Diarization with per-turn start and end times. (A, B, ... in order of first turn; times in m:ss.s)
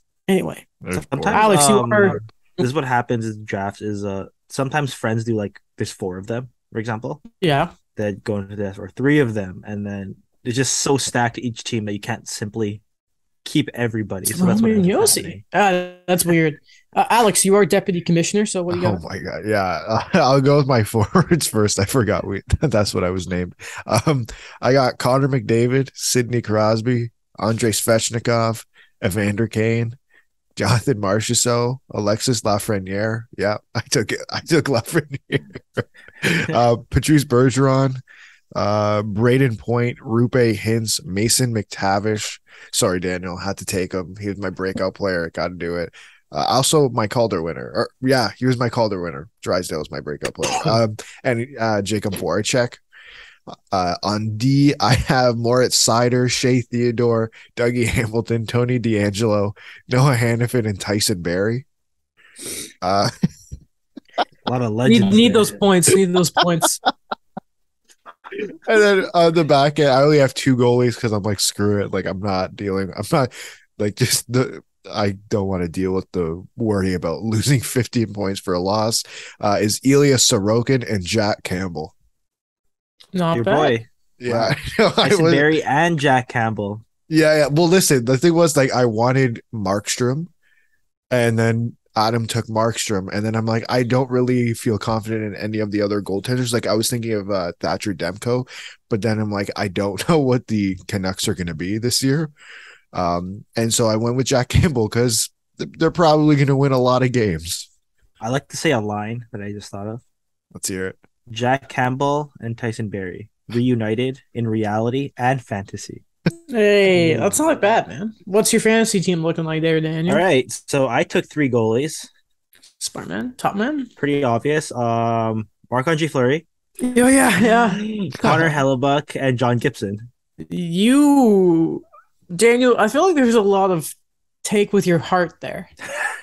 0:00.3-0:00.7 A
0:00.8-0:01.5 B
0:00.9-0:07.2 C
0:01.3-0:02.2 A
0:07.4-0:07.7 A
0:08.0-0:12.8 C
0:13.4-0:15.4 C
0:14.3-0:19.0 A
0:18.7-0:30.0 B
0:30.6-0:38.0 B
0:38.5-0:52.8 B
0:53.5-1:01.6 B
1:02.8-1:03.3 B
1:04.4-1:05.6 C
1:04.9-1:06.8 A
1:08.6-1:21.9 B
1:23.2-1:23.7 A
1:23.3-1:26.8 C
1:24.2-1:25.5 B
1:27.1-1:30.3 B
1:31.1-1:42.3 B
1:42.9-1:47.7 B
1:48.2-1:50.0 C
1:50.5-1:51.0 B
1:51.3-1:56.0 C
1:56.5-2:00.2 A
1:57.0-1:57.4 C
2:00.1-2:02.1 C
2:02.8-2:03.9 A
2:04.0-2:06.4 C
2:06.8-2:08.6 A
2:07.4-2:10.1 C
2:10.5-2:15.7 A